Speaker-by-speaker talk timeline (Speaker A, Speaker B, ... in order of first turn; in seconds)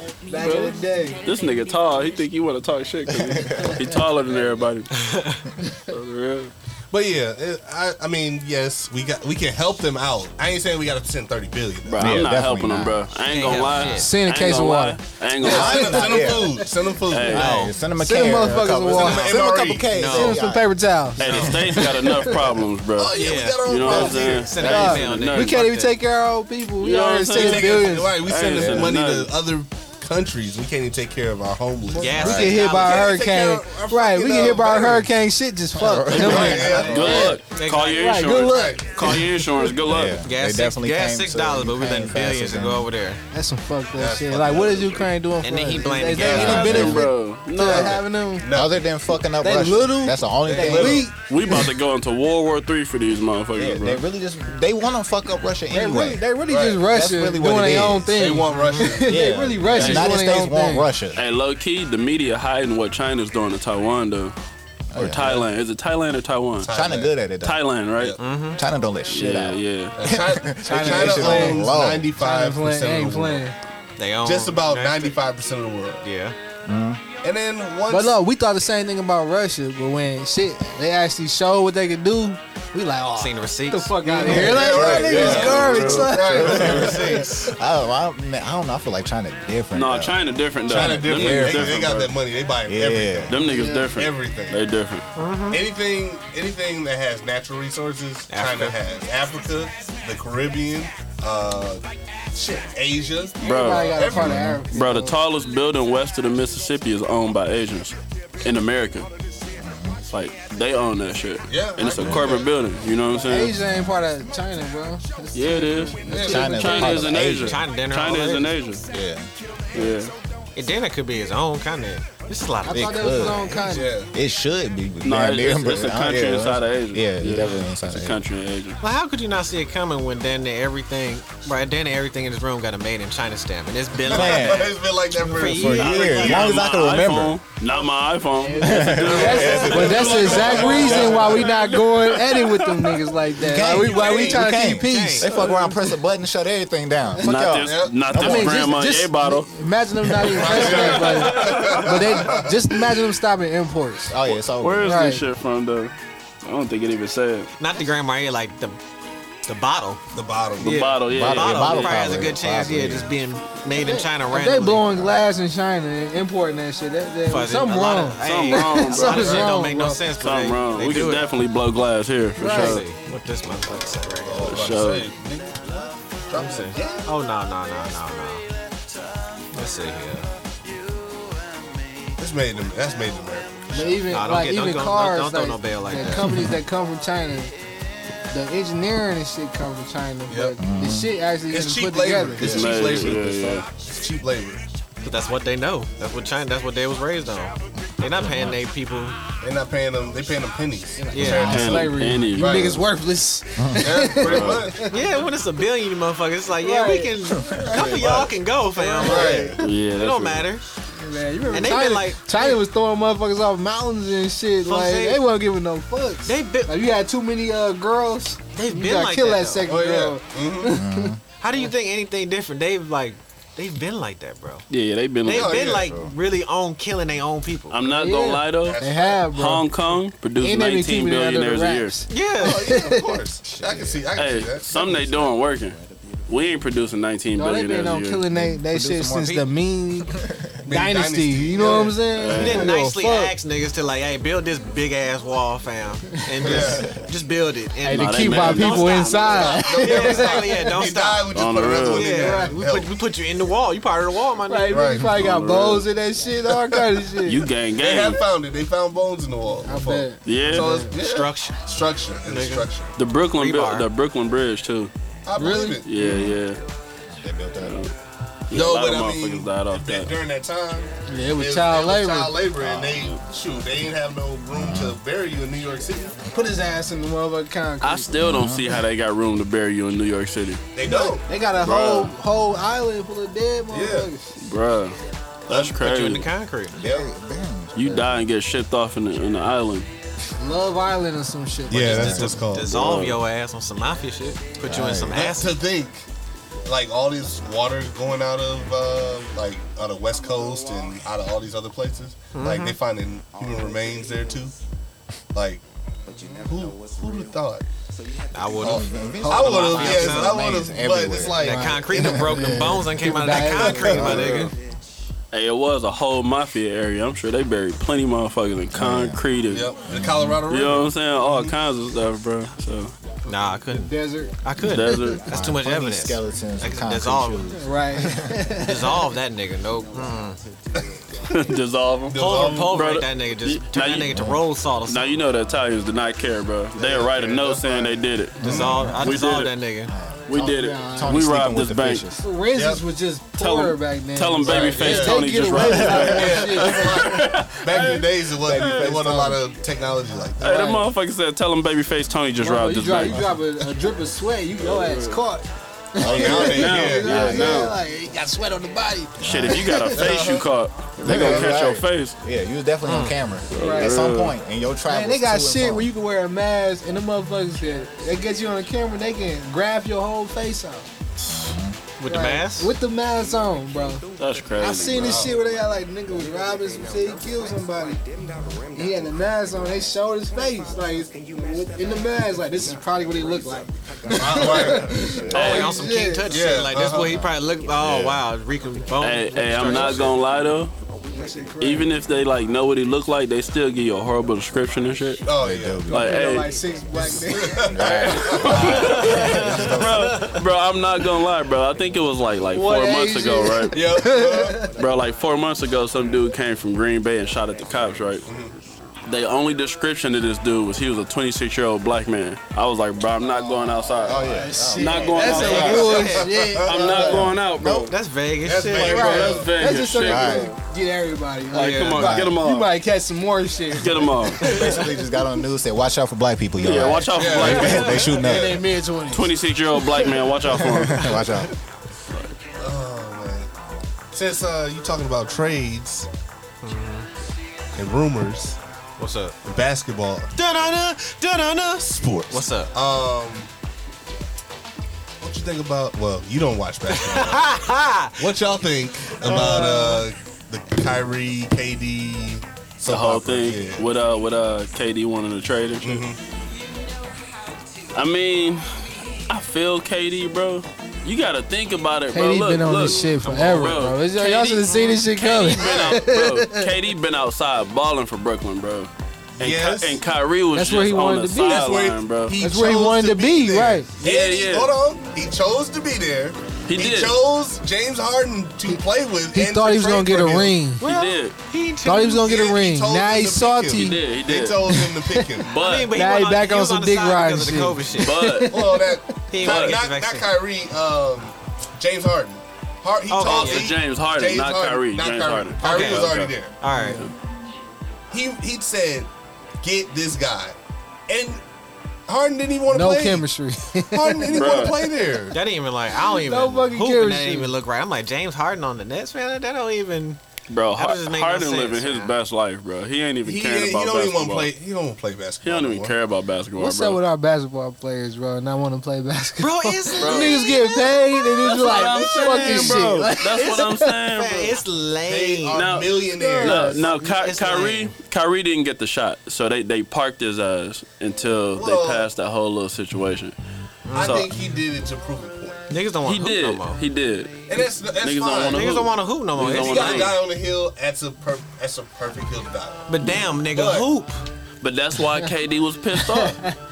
Speaker A: 0.3-1.2, 13.9-16.5, 17.9-19.4, 20.0-22.3, 24.6-28.2, 31.9-39.7, 43.3-48.5, 49.4-51.7, 55.7-60.9, 70.6-71.7, 72.2-73.6, 77.9-87.5, 93.4-93.9, 103.4-105.2, 113.2-117.0, 122.7-124.0, 138.4-145.4, 148.1-154.2, 154.8-155.2, 163.7-170.0, 172.4-172.8, 183.7-187.5, 188.3-192.9, 201.0-205.0, 206.6-208.1, 208.8-209.5, 211.0-221.2, 227.9-229.7, 230.4-233.2, 237.4-243.3, 247.8-250.7, 252.1-252.6, 254.5-257.5, 259.6-260.9, 265.4-265.9, 271.1-272.4, 276.2-278.2, 280.8-284.3, 290.4-292.3, 312.1-314.3, 323.7-324.4, 327.6-329.0, 340.5-341.1, 342.2-347.3, 352.4-360.2, 363.6-364.0, 364.9-370.9, 372.1-374.1, 374.6-378.0, 378.7-386.4, 391.1-391.9, 395.9-397.8, 402.5-404.8, 414.2-417.3, 418.7-424.8, 427.6-429.4, 462.1-466.7, 470.5-471.7, 472.4-474.0, 479.3-480.9, 481.8-484.0, 484.7-485.3, 485.9-489.0, 496.8-497.1, 502.7-504.8, 506.1-507.5, 516.6-523.9, 526.2-526.8, 546.0-546.5
Speaker B: 0.3-4.9, 5.9-6.5, 11.9-16.1, 17.1-17.6, 21.2-25.8, 26.8-29.3, 36.1-40.2, 46.5-48.0, 51.2-54.0, 59.7-60.1, 61.1-64.3, 65.0-66.7, 67.4-68.2, 69.1-70.0, 84.9-87.0, 89.7-92.1, 93.3-95.0, 103.4-104.0, 104.7-109.1, 110.1-113.6, 115.3-118.8, 119.7-120.1, 125.0-128.8, 136.2-143.0, 147.2-149.5, 150.0-152.0, 154.6-157.5, 160.6-162.0, 168.2-172.8, 174.5-175.1, 192.4-193.7, 201.2-202.8, 204.2-204.7, 209.6-210.5, 224.7-225.7, 227.7-228.8, 229.3-231.9, 234.2-238.2, 242.1-242.7, 247.9-249.6, 251.3-252.1, 255.0-255.9, 257.2-258.2, 260.2-260.7, 263.0-264.9, 265.9-266.6, 267.6-267.9, 268.5-270.1, 277.8-280.6, 281.6-282.1, 284.4-285.0, 285.5-286.3, 287.8-289.9, 292.6-293.2, 313.9-314.5, 315.3-319.7, 320.5-322.9, 324.6-325.2, 331.3-334.1, 334.9-339.5, 340.3-342.1, 343.4-348.9, 350.4-353.3, 354.6-355.2, 356.1-357.7, 359.2-362.1, 363.5-364.4, 374.2-375.2, 385.5-385.7, 389.0-390.7, 391.6-395.2, 395.9-396.5, 397.8-403.8, 404.8-408.3, 409.1-417.9, 418.7-420.6, 421.5-422.7, 423.7-424.7, 426.6-428.1, 429.1-431.2, 452.9-456.1, 457.9-458.7, 459.3-468.9, 469.4-472.4, 474.0-474.7, 476.7-477.2, 480.8-481.4, 483.8-484.8, 485.4-485.9, 488.0-488.5, 489.4-489.8, 493.2-497.1, 504.3-504.8, 510.5-514.5, 515.4-517.0, 520.0-520.5, 521.4-524.6, 525.5-533.4, 533.9-534.3, 536.0-540.2, 544.6-546.4
Speaker C: 3.1-3.9, 12.0-13.1, 15.4-16.7, 17.2-22.1, 24.6-25.0, 28.6-29.0, 32.2-32.6, 35.7-37.0, 39.8-42.9, 46.2-47.1, 48.5-51.1, 53.5-56.2, 56.8-58.1, 59.0-61.2, 64.9-65.5, 66.7-67.6, 68.6-72.1, 76.7-77.0, 84.1-92.1, 92.7-93.4, 104.1-104.6, 109.6-110.0, 112.0-112.4, 113.7-114.0, 116.1-117.7, 118.9-119.9, 122.7-123.6, 124.1-128.2, 134.0-137.4, 138.6-141.4, 143.4-148.8, 154.1-155.0, 161.1-163.2, 186.2-186.6, 190.6-191.2, 198.1-198.6, 201.2-201.8, 203.6-203.9, 207.3-208.3, 220.7-221.2, 225.8-226.1, 233.5-234.0, 238.3-239.4, 240.2-240.5, 246.5-246.9, 266.0-266.4, 267.1-267.8, 272.6-273.1, 274.5-275.0, 278.2-278.8, 286.7-288.3, 291.8-292.3, 294.6-295.3, 308.6-312.5, 318.7-319.2, 319.9-320.4, 324.6-328.6, 334.1-334.4, 338.4-339.2, 339.9-342.2, 345.6-346.2, 348.5-349.4, 353.1-353.4, 356.1-356.4, 357.1-357.7, 359.2-359.7, 361.0-365.9, 371.3-371.8, 395.4-396.2, 397.6-399.8, 414.0-416.1, 416.8-417.9, 420.0-420.5, 421.9-422.4, 424.4-428.6, 430.5-431.5
Speaker D: 4.9-5.4, 13.2-14.1, 17.4-17.7, 19.0-20.4, 23.1-26.0, 32.0-33.1, 37.4-38.1, 40.2-43.2, 45.4-46.8, 68.2-68.6, 74.0-75.2, 76.0-76.4, 83.2-84.4, 95.2-95.6, 98.3-98.8, 117.4-118.5, 120.6-123.3, 128.8-136.5, 144.7-145.3, 157.6-158.8, 159.4-160.0, 160.6-164.9, 167.3-171.3, 172.4-174.7, 176.3-178.4, 179.5-180.3, 184.1-186.3, 195.0-199.2, 201.1-201.5, 204.9-210.6, 211.5-212.6, 214.6-215.2, 216.2-216.8, 218.5-219.7, 221.4-224.7, 225.2-227.8, 232.1-232.7, 239.2-239.5, 242.3-251.3, 251.9-254.9, 260.9-261.6, 262.3-262.7, 263.4-263.9, 285.5-286.8, 291.8-295.6, 302.3-302.8, 308.3-310.4, 311.4-314.5, 323.3-327.4, 328.6-330.4, 332.1-335.1, 338.4-339.9, 362.9-363.2, 372.0-372.7, 385.3-390.1, 398.6-400.4, 415.2-416.3, 417.9-419.3, 421.6-421.9, 424.4-424.7, 436.6-437.1, 439.0-439.4, 440.4-442.7, 446.9-448.3, 449.4-450.0, 480.8-482.3, 485.6-488.2, 489.3-490.3, 493.1-493.7, 495.6-497.1, 505.3-510.2, 510.7-512.1, 519.4-525.6, 526.8-527.9, 533.9-534.2, 535.7-536.8, 538.5-540.1, 542.9-544.2
Speaker E: 6.9-12.3, 15.4-17.7, 18.9-19.9, 21.2-21.8, 23.0-24.6, 27.3-35.1, 36.1-37.4, 38.4-38.9, 44.0-45.1, 46.2-47.0, 47.6-48.9, 50.5-51.1, 56.5-56.9, 58.1-59.4, 66.6-67.2, 70.0-73.4, 74.2-76.1, 77.2-78.2, 84.1-87.5, 90.7-94.6, 95.5-101.8, 102.3-104.5, 111.5-112.5, 116.1-117.0, 123.5-124.1, 134.0-137.0, 138.9-141.5, 143.7-144.5, 147.6-148.1, 150.3-152.8, 160.1-160.8, 174.2-177.1, 182.2-184.1, 190.3-190.6, 191.5-194.7, 199.4-202.9, 203.8-204.8, 209.0-209.6, 219.6-220.8, 225.3-226.1, 228.6-229.2, 232.4-235.0, 240.7-242.1, 246.4-246.9, 249.5-252.9, 254.7-255.3, 256.5-257.0, 257.8-262.9, 265.3-265.9, 268.5-276.2, 280.8-281.2, 283.7-284.1, 291.7-292.9, 295.1-296.1, 296.6-304.6, 305.3-305.6, 306.3-307.6, 308.6-312.1, 313.5-314.5, 319.5-321.5, 332.1-332.8, 336.8-338.8, 342.5-342.8, 344.4-350.8, 356.0-357.6, 359.9-360.5, 361.0-361.6, 375.0-375.3, 384.1-385.7, 386.3-387.2, 387.8-388.1, 389.6-390.1, 395.2-395.9, 397.0-399.9, 403.7-404.7, 408.3-408.5, 413.2-414.2, 415.3-417.3, 418.4-419.5, 427.2-428.6, 432.6-433.5, 434.1-436.1, 437.8-438.6, 439.4-440.3, 441.9-443.5, 445.2-447.6, 448.2-453.8, 455.8-456.2, 465.6-466.0, 469.4-470.0, 471.5-480.6, 482.2-485.5, 488.5-496.6, 498.1-499.1, 499.6-500.6, 501.1-501.4, 502.1-503.3, 503.9-505.4, 513.2-515.9, 525.0-526.8, 531.5-532.1, 533.9-535.6, 537.5-538.8, 539.4-542.8, 543.5-543.9